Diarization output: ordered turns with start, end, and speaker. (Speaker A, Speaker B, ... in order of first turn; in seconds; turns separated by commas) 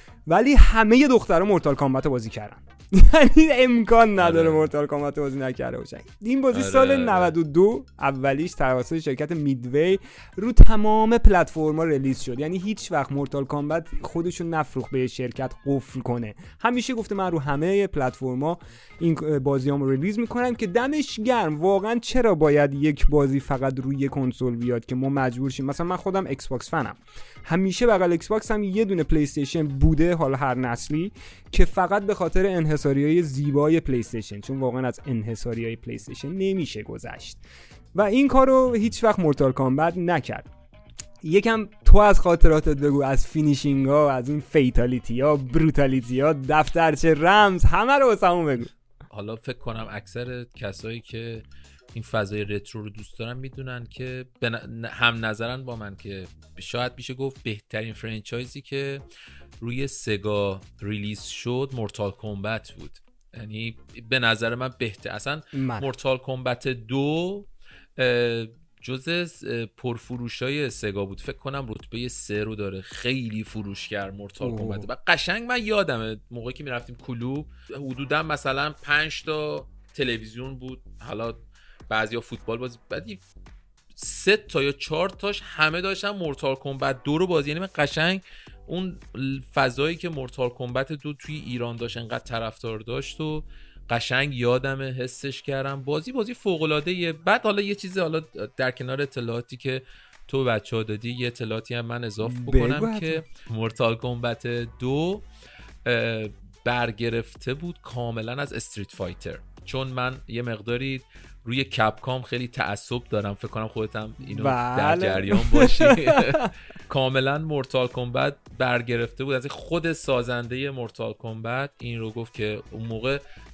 Speaker A: 0.3-37.4, Speaker B: 4.2-4.7, Speaker B: 6.5-7.3, Speaker A: 37.9-40.5, Speaker A: 41.2-48.7, Speaker B: 49.1-59.0, Speaker B: 59.6-83.2, Speaker A: 65.5-65.9, Speaker A: 74.4-74.9, Speaker B: 83.9-105.2, Speaker A: 102.2-103.2, Speaker B: 105.8-123.2, Speaker A: 114.2-116.5